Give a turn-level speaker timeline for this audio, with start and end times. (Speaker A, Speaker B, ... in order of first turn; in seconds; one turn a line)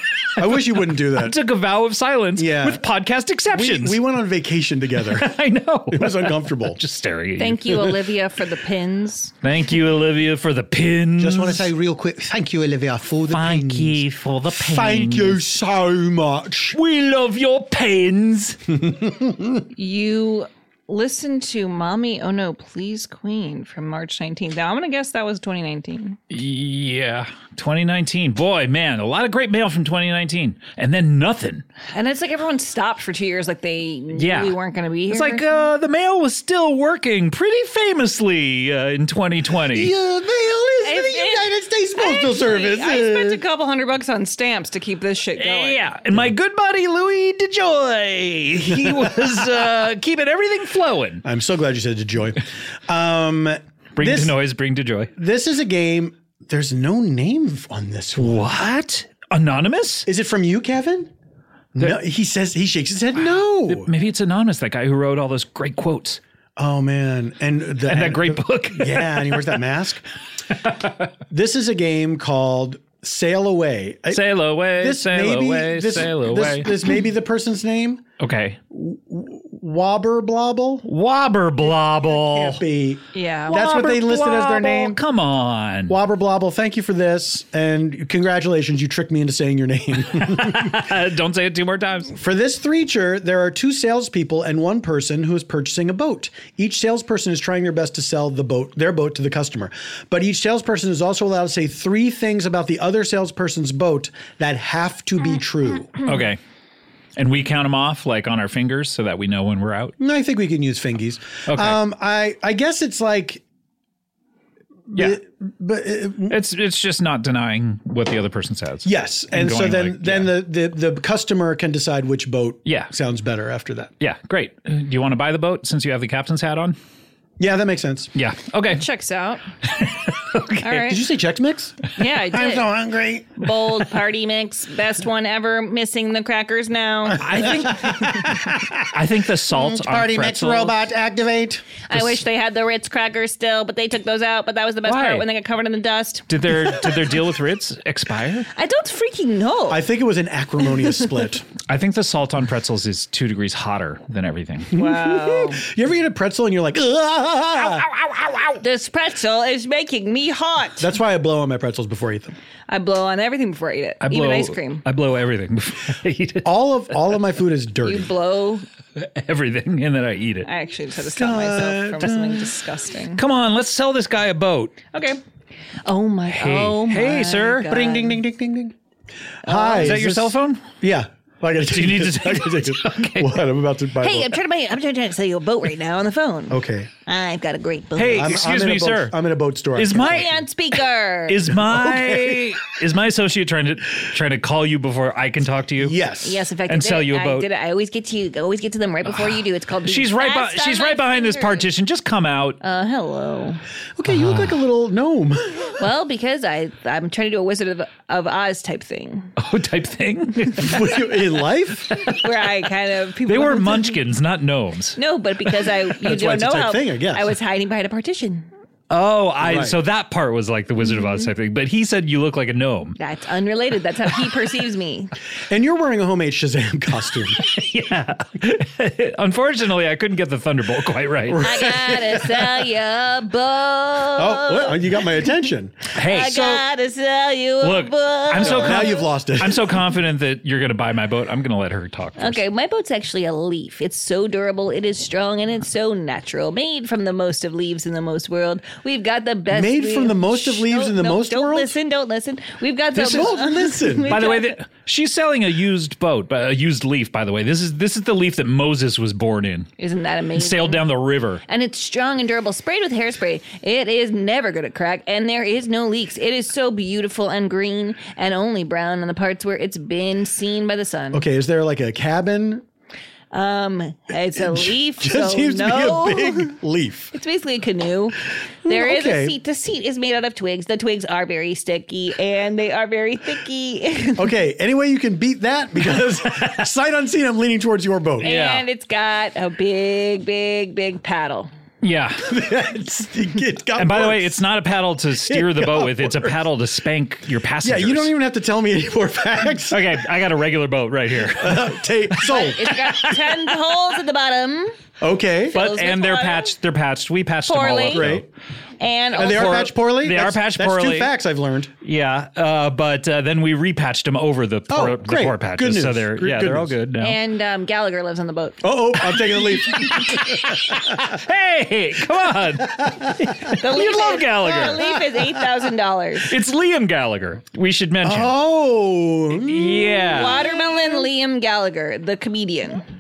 Speaker A: 0.4-1.4
Speaker B: 1.0-4.0
Speaker A: 2.4-2.8
Speaker A: 3.5-5.3
Speaker B: 5.0-8.0
Speaker A: 5.9-6.8
Speaker C: 7.4-9.3
Speaker B: 9.4-11.7
Speaker A: 11.2-14.0
Speaker B: 13.3-15.4
Speaker A: 14.5-16.8
Speaker B: 16.8-18.7
Speaker A: 18.8-19.7
Speaker C: 19.7-26.2
Speaker B: 26.3-31.6
Speaker C: 31.9-35.7
Speaker B: 34.1-34.6
Speaker B: 35.1-39.9
Speaker A: 39.7-43.4
Speaker C: 40.8-45.8
Speaker B: 45.4-51.2
Speaker A: 51.2-54.4
Speaker B: 54.0-55.1
Speaker A: 55.2-58.6
Speaker B: 58.2-60.1
Speaker A: 60.1-61.1
Speaker A: 61.8-63.9
Speaker B: 63.7-66.2
Speaker A: 66.6-70.0
Speaker B: 67.8-69.5
Speaker A: 71.3-78.0
Speaker B: 74.1-76.9
Speaker B: 78.2-78.6
Speaker A: 78.7-80.8
Speaker B: 80.8-82.6
Speaker A: 81.7-85.0
Speaker C: 83.1-83.6
Speaker B: 83.5-86.0
Speaker A: 85.9-90.8
Speaker B: 90.1-92.2
Speaker A: 92.1-106.0
Speaker B: 106.0-106.4
Speaker B: 107.2-110.0
Speaker A: 110.0-113.4
Speaker B: 111.5-111.8
Speaker A: 114.9-116.4
Speaker B: 116.3-120.3
Speaker A: 118.8-123.9
Speaker B: 122.7-122.9
Speaker B: 124.0-126.8
Speaker A: 127.4-128.1
Speaker B: 128.2-128.9
Speaker C: 128.7-129.4
Speaker B: 129.6-130.9
Speaker C: 130.6-131.0
Speaker A: 130.9-133.5
Speaker C: 131.9-132.7
Speaker C: 133.4-137.5
Speaker A: 137.1-139.0
Speaker B: 137.2-140.8
Speaker A: 139.5-142.0
Speaker C: 141.9-146.5
Speaker B: 144.9-145.2
Speaker B: 146.3-148.5
Speaker C: 148.6-149.8
Speaker A: 149.7-151.5
Speaker B: 151.7-154.7
Speaker A: 154.7-158.6
Speaker C: 154.7-155.6
Speaker C: 158.6-160.9
Speaker A: 160.8-162.3
Speaker C: 162.7-164.8
Speaker B: 164.0-166.7
Speaker A: 166.4-168.1
Speaker C: 167.8-168.7
Speaker B: 169.0-170.5
Speaker C: 170.4-173.2
Speaker A: 171.1-172.4
Speaker B: 173.2-174.8
Speaker C: 174.9-175.2
Speaker C: 175.9-178.2
Speaker B: 176.3-177.7
Speaker A: 177.7-178.8
Speaker C: 179.4-180.0
Speaker A: 179.4-184.3
Speaker B: 179.8-180.6
Speaker B: 181.7-183.4
Speaker C: 184.0-188.4
Speaker A: 186.5-186.9
Speaker B: 188.0-189.2
Speaker A: 188.1-190.4
Speaker B: 189.8-190.5
Speaker C: 190.0-191.6
Speaker B: 191.3-196.0
Speaker A: 191.6-192.6
Speaker A: 195.8-196.4
Speaker C: 196.2-201.7
Speaker B: 196.7-197.5
Speaker B: 199.1-202.6
Speaker C: 202.6-203.6
Speaker A: 204.0-205.8
Speaker B: 204.2-204.5
Speaker C: 205.8-209.3
Speaker B: 209.4-210.8
Speaker A: 210.6-212.1
Speaker C: 212.1-214.0
Speaker B: 213.3-215.0
Speaker C: 215.0-218.5
Speaker A: 216.0-217.3
Speaker B: 218.9-223.0
Speaker A: 219.4-219.8
Speaker C: 223.0-225.1
Speaker A: 225.5-227.4
Speaker B: 227.4-231.5
Speaker A: 231.3-232.4
Speaker C: 231.4-235.0
Speaker A: 234.2-236.6
Speaker B: 235.9-236.5
Speaker C: 236.0-239.1
Speaker B: 237.6-242.4
Speaker A: 238.4-239.8
Speaker C: 242.2-254.6
Speaker A: 249.5-251.8
Speaker A: 252.9-254.2
Speaker B: 254.1-259.7
Speaker C: 259.8-260.9
Speaker B: 260.4-261.4
Speaker C: 261.4-271.2
Speaker A: 271.1-272.6
Speaker C: 273.3-276.6
Speaker A: 274.4-277.1
Speaker C: 277.1-284.3
Speaker A: 278.6-279.4
Speaker A: 284.2-288.3
Speaker C: 288.2-291.5
Speaker B: 288.2-288.6
Speaker B: 291.8-292.3
Speaker A: 292.3-294.4
Speaker B: 293.8-298.1
Speaker A: 295.3-296.4
Speaker A: 297.6-299.9
Speaker B: 299.7-303.6
Speaker A: 301.3-302.9
Speaker C: 302.2-304.8
Speaker A: 305.0-305.6
Speaker C: 305.5-306.5
Speaker B: 305.5-308.2
Speaker C: 307.4-308.2
Speaker A: 307.9-308.3
Speaker C: 308.8-309.7
Speaker A: 309.2-311.7
Speaker B: 309.2-311.1
Speaker B: 311.8-317.2
Speaker A: 314.7-316.8
Speaker C: 317.0-318.6
Speaker A: 318.6-321.2
Speaker B: 319.5-324.8
Speaker A: 322.7-325.2
Speaker C: 323.6-326.3
Speaker B: 326.3-328.4
Speaker A: 328.0-330.1
Speaker B: 329.3-330.5
Speaker C: 330.1-332.8